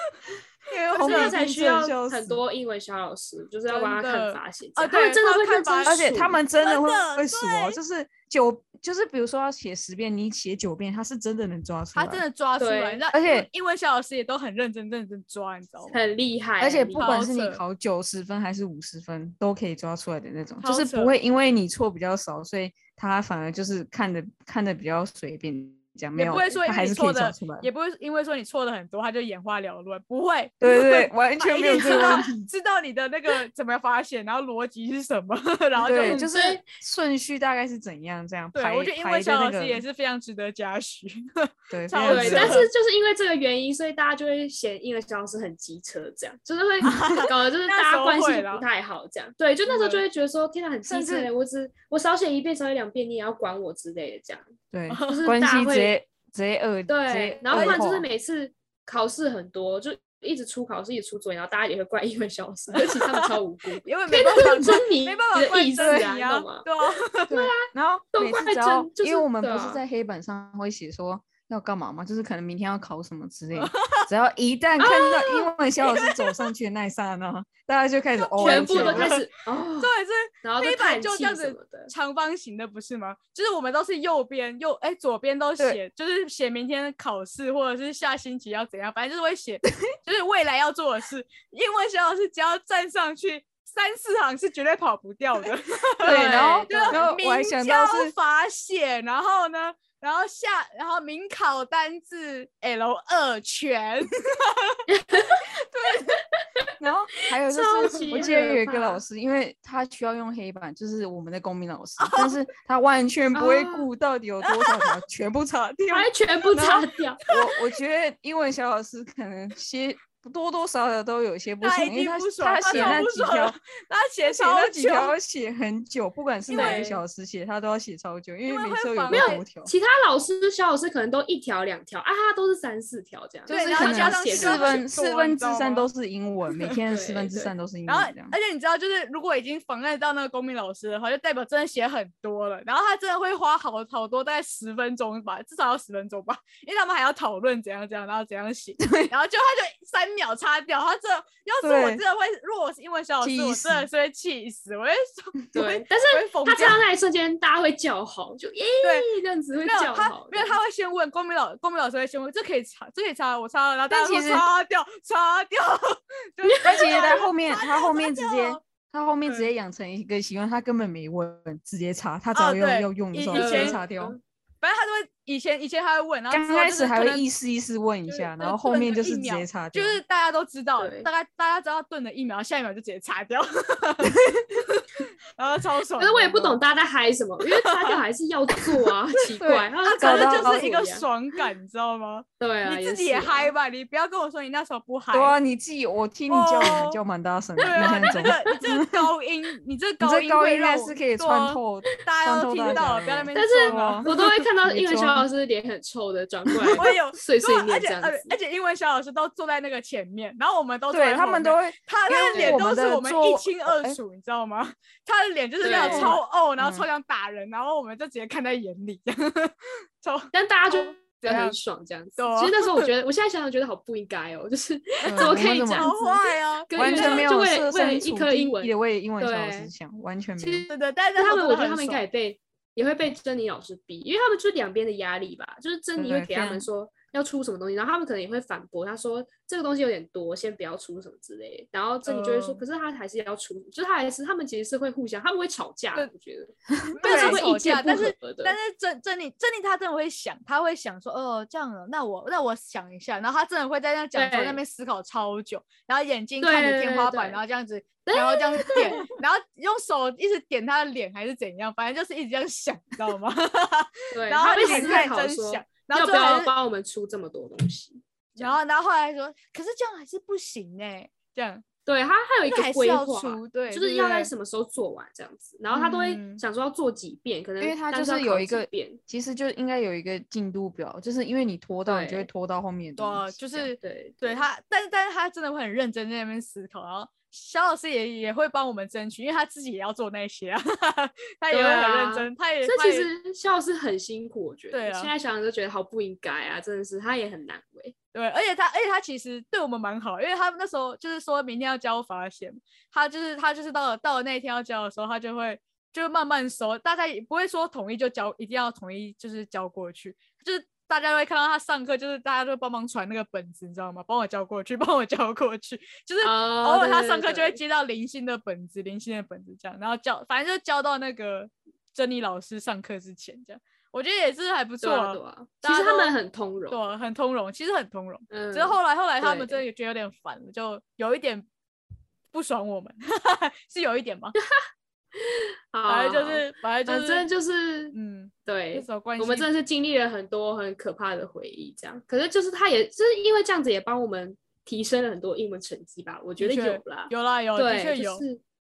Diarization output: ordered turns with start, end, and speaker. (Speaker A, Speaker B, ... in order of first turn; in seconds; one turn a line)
Speaker A: 0.7-2.4
Speaker B: 0.9-1.4
Speaker C: 1.0-6.4
Speaker B: 3.7-7.8
Speaker A: 5.9-12.2
Speaker B: 11.9-16.0
Speaker C: 12.6-13.0
Speaker A: 13.1-13.5
Speaker C: 15.9-17.2
Speaker A: 16.6-27.7
Speaker B: 17.0-17.6
Speaker B: 20.6-21.1
Speaker B: 26.1-36.3
Speaker A: 30.6-32.5
Speaker C: 31.8-32.2
Speaker A: 35.8-39.8
Speaker C: 35.9-36.6
Speaker B: 38.5-42.7
Speaker A: 41.7-42.7
Speaker C: 42.0-54.4
Speaker B: 46.9-48.6
Speaker A: 47.0-47.2
Speaker B: 49.7-50.0
Speaker A: 50.9-51.3
Speaker A: 54.7-58.1
Speaker B: 54.9-55.3
Speaker C: 55.1-55.9
Speaker C: 56.9-66.7
Speaker B: 57.5-57.8
Speaker B: 62.8-63.3
Speaker B: 63.8-67.3
Speaker A: 65.8-66.1
Speaker C: 67.2-69.8
Speaker A: 67.3-79.2
Speaker B: 73.5-74.1
Speaker C: 74.9-75.1
Speaker B: 75.8-76.1
Speaker B: 78.2-79.3
Speaker C: 78.4-79.9
Speaker B: 79.8-104.8
Speaker C: 80.4-81.9
Speaker C: 96.0-97.0
Speaker A: 96.0-98.1
Speaker C: 104.9-105.5
Speaker A: 105.7-106.1
Speaker A: 106.8-123.6
Speaker C: 107.3-109.0
Speaker B: 112.0-112.4
Speaker C: 113.3-113.9
Speaker B: 114.4-115.0
Speaker C: 115.9-117.2
Speaker B: 121.6-125.1
Speaker C: 122.7-123.0
Speaker A: 124.2-129.7
Speaker B: 126.5-126.9
Speaker C: 126.5-127.0
Speaker B: 128.5-129.4
Speaker C: 129.1-134.8
Speaker A: 133.5-138.3
Speaker B: 133.5-135.9
Speaker C: 136.9-137.5
Speaker B: 137.9-156.8
Speaker A: 148.8-149.1
Speaker A: 151.6-152.0
Speaker A: 153.2-153.9
Speaker C: 155.5-160.6
Speaker B: 158.8-159.1
Speaker B: 159.7-168.6
Speaker A: 163.9-164.5
Speaker C: 166.5-166.9
Speaker A: 166.6-174.2
Speaker B: 172.3-173.8
Speaker C: 173.3-174.2
Speaker B: 174.6-177.2
Speaker A: 176.3-180.0
Speaker B: 178.1-186.6
Speaker C: 180.8-181.1
Speaker C: 186.0-191.1
Speaker B: 187.6-188.0
Speaker A: 189.4-190.7
Speaker B: 189.5-195.4
Speaker C: 192.4-193.5
Speaker A: 195.1-199.1
Speaker B: 196.3-197.0
Speaker C: 197.6-198.3
Speaker B: 197.6-204.2
Speaker A: 200.0-205.3
Speaker C: 203.3-208.4
Speaker B: 206.7-221.6
Speaker A: 210.9-214.0
Speaker C: 212.3-212.6
Speaker C: 215.6-216.2
Speaker A: 215.8-216.9
Speaker C: 220.3-229.7
Speaker B: 222.2-222.9
Speaker B: 225.0-227.3
Speaker A: 225.1-225.9
Speaker A: 226.7-230.7
Speaker C: 230.4-248.6
Speaker B: 230.7-232.0
Speaker A: 236.0-236.7
Speaker B: 242.1-242.6
Speaker A: 246.8-247.4
Speaker B: 246.9-266.5
Speaker C: 254.2-254.6
Speaker C: 256.4-257.4
Speaker C: 258.1-259.0
Speaker C: 264.1-268.6
Speaker A: 264.6-265.1
Speaker B: 268.4-271.6
Speaker C: 271.9-279.0
Speaker B: 272.5-274.3
Speaker B: 275.7-276.4
Speaker A: 277.6-283.7
Speaker C: 281.9-282.3
Speaker B: 283.0-293.1
Speaker C: 283.8-284.4
Speaker C: 291.5-297.9
Speaker B: 294.7-295.1
Speaker B: 298.1-326.2
Speaker C: 316.2-317.6
Speaker C: 324.8-326.9
Speaker B: 326.7-331.5
Speaker C: 328.3-329.6
Speaker B: 332.3-334.4
Speaker C: 335.1-337.9
Speaker B: 335.9-337.3
Speaker B: 337.9-339.5
Speaker C: 338.5-348.4
Speaker B: 346.4-348.2